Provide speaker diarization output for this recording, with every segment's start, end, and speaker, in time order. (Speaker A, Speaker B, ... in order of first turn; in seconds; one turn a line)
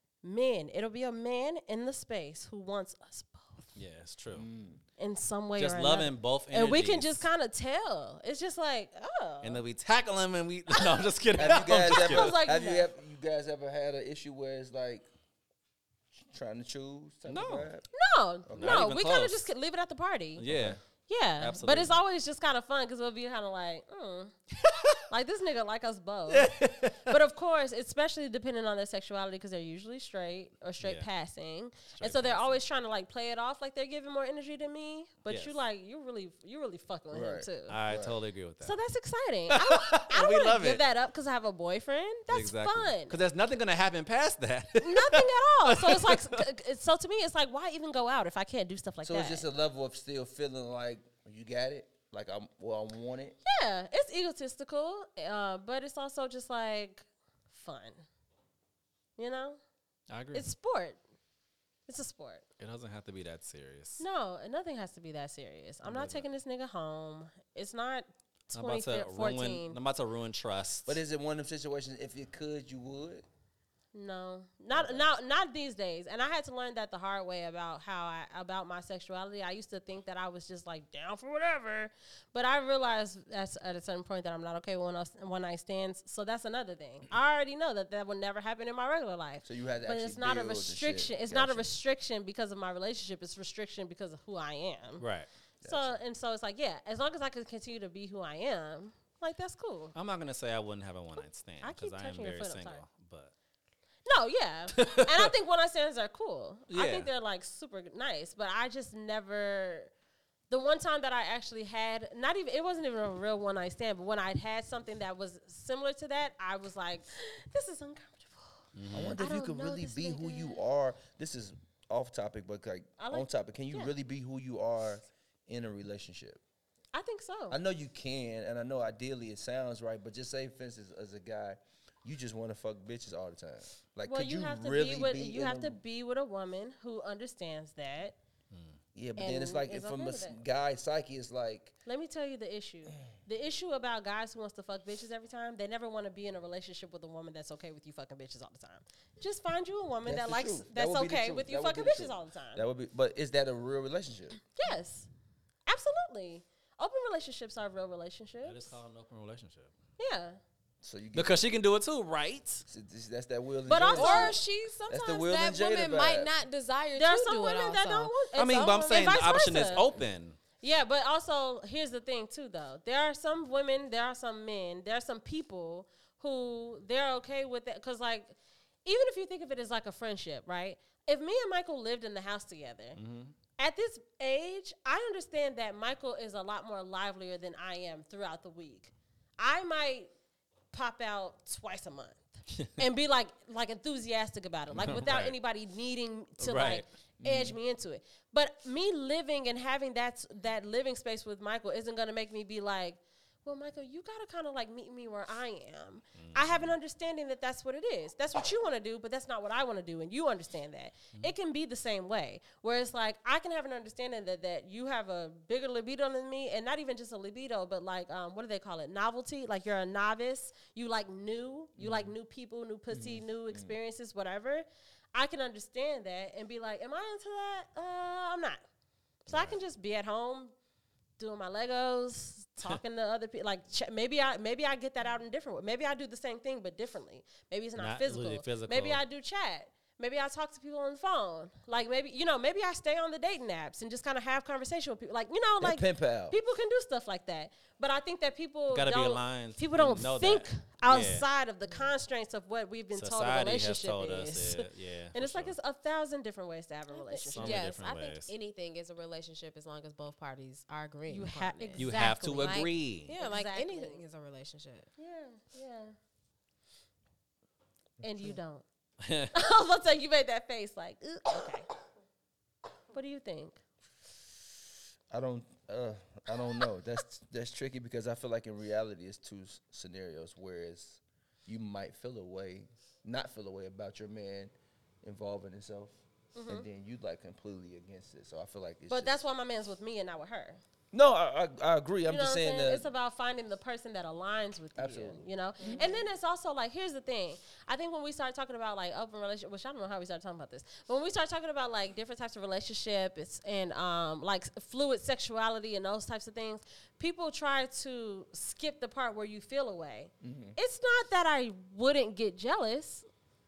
Speaker A: 0.2-3.6
Speaker B: 3.8-4.5
Speaker C: 4.3-4.8
Speaker A: 5.0-9.6
Speaker B: 5.6-7.2
Speaker B: 9.4-12.6
Speaker A: 10.7-12.9
Speaker C: 11.4-15.1
Speaker C: 16.1-17.9
Speaker B: 17.3-17.7
Speaker A: 17.9-20.4
Speaker C: 18.5-18.9
Speaker B: 18.6-19.5
Speaker B: 20.4-20.8
Speaker C: 20.5-20.8
Speaker A: 21.1-24.3
Speaker B: 21.4-22.0
Speaker B: 24.6-25.0
Speaker A: 25.1-26.5
Speaker B: 26.3-27.1
Speaker A: 27.1-37.8
Speaker B: 30.8-31.1
Speaker B: 32.0-32.6
Speaker B: 35.3-35.6
Speaker C: 37.1-38.2
Speaker B: 37.7-38.8
Speaker A: 38.6-43.2
Speaker B: 39.5-40.8
Speaker B: 42.3-46.4
Speaker A: 44.8-49.5
Speaker C: 49.0-53.4
Speaker A: 53.5-58.0
Speaker A: 59.2-59.6
Speaker B: 60.1-60.4
Speaker A: 60.3-61.0
Speaker A: 61.9-62.5
Speaker B: 62.6-64.0
Speaker A: 64.0-69.8
Speaker C: 65.9-66.2
Speaker B: 68.5-71.0
Speaker C: 70.9-73.2
Speaker A: 73.9-95.0
Speaker C: 74.7-75.0
Speaker C: 89.4-91.8
Speaker B: 95.0-95.3
Speaker C: 95.6-96.0
Speaker A: 95.7-99.9
Speaker B: 100.0-103.3
Speaker A: 101.6-102.8
Speaker A: 104.1-109.9
Speaker B: 104.8-105.3
Speaker B: 106.7-107.1
Speaker A: 110.5-118.6
Speaker B: 118.8-119.2
Speaker C: 118.9-126.4
Speaker A: 119.2-120.6
Speaker A: 123.0-123.9
Speaker A: 126.9-127.6
Speaker C: 127.5-135.8
Speaker A: 134.1-138.2
Speaker C: 138.9-141.8
Speaker A: 139.2-140.4
Speaker A: 141.9-152.6
Speaker C: 150.0-154.4
Speaker A: 154.6-155.1
Speaker A: 155.7-158.7
Speaker B: 158.4-159.7
Speaker A: 160.0-160.4
Speaker C: 160.8-161.4
Speaker B: 161.1-162.7
Speaker C: 162.7-166.3
Speaker A: 163.7-164.4
Speaker D: 163.9-169.2
Speaker A: 166.9-169.9
Speaker B: 168.4-170.4
Speaker A: 170.6-183.0
Speaker B: 183.0-183.3
Speaker A: 183.6-190.1
Speaker A: 190.7-228.6
Speaker B: 194.7-195.3
Speaker B: 196.4-196.8
Speaker C: 197.2-197.6
Speaker B: 206.2-206.7
Speaker C: 221.8-222.1
Speaker C: 222.9-223.8
Speaker A: 229.3-230.5
Speaker A: 231.2-257.7
Speaker B: 237.8-239.0
Speaker C: 245.6-246.4
Speaker B: 248.7-251.2
Speaker B: 252.9-255.6
Speaker D: 256.9-264.9
Speaker B: 257.3-258.3
Speaker A: 261.1-264.0
Speaker B: 261.8-263.1
Speaker A: 265.0-266.0
Speaker C: 268.0-268.4
Speaker A: 268.0-268.7
Speaker B: 269.0-269.3
Speaker A: 269.3-271.7
Speaker A: 272.9-273.6
Speaker C: 275.1-289.2
Speaker A: 286.4-286.7
Speaker A: 288.9-290.6
Speaker C: 290.9-292.9
Speaker A: 292.1-313.1
Speaker C: 294.8-295.8
Speaker D: 295.6-296.1
Speaker C: 310.2-310.6